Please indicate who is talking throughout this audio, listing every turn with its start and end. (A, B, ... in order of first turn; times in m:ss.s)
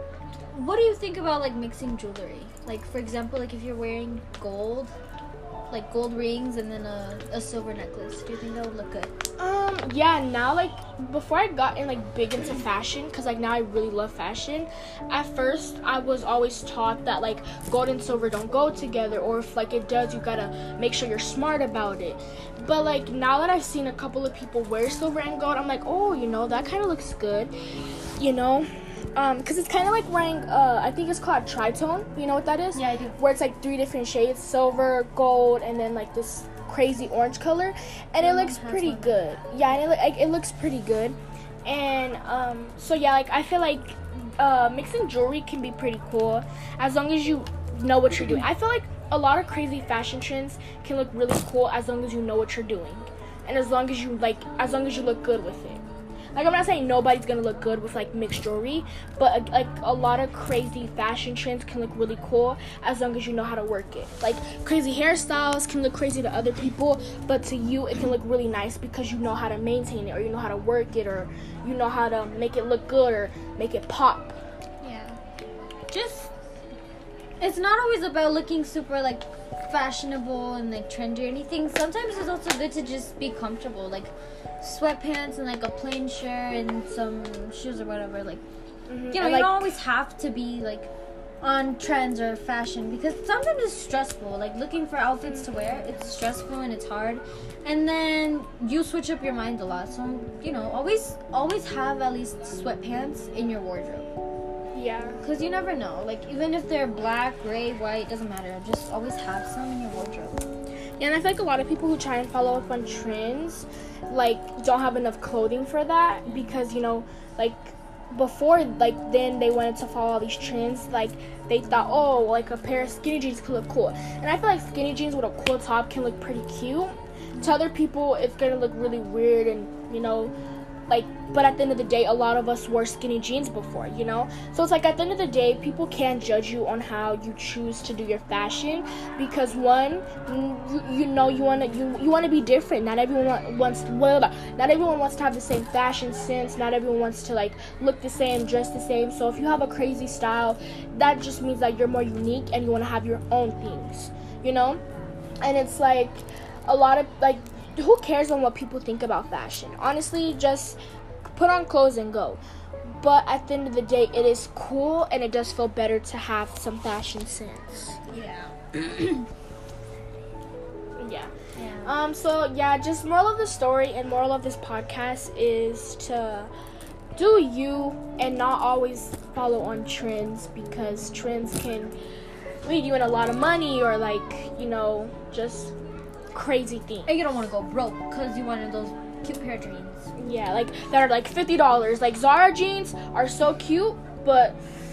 0:00.5-0:04.9 A
0:05.7-0:09.1 A
0:09.4-0:27.5 B
0:28.2-0:55.8 B
0:32.7-0:33.2 A
0:38.2-0:39.2 A
0:56.3-1:14.4 B
1:14.8-1:15.2 A
1:15.9-1:16.3 A
1:17.4-1:28.4 A
1:28.9-1:29.8 B
1:29.1-1:30.9 A
1:31.4-1:44.1 A
1:35.2-1:35.9 B
1:44.7-1:45.2 B
1:45.2-1:50.4 A
1:51.0-2:10.3 B
2:10.9-2:34.8 B
2:35.4-2:40.8 B
2:41.3-2:42.4 B
2:43.0-2:48.0 B
2:48.1-2:49.1 A
2:51.0-2:56.5 B
2:51.6-2:51.9 A
2:57.2-3:02.0 B
3:02.6-3:05.7 B
3:06.3-3:07.1 B
3:07.0-3:10.1 A
3:10.2-3:14.6 B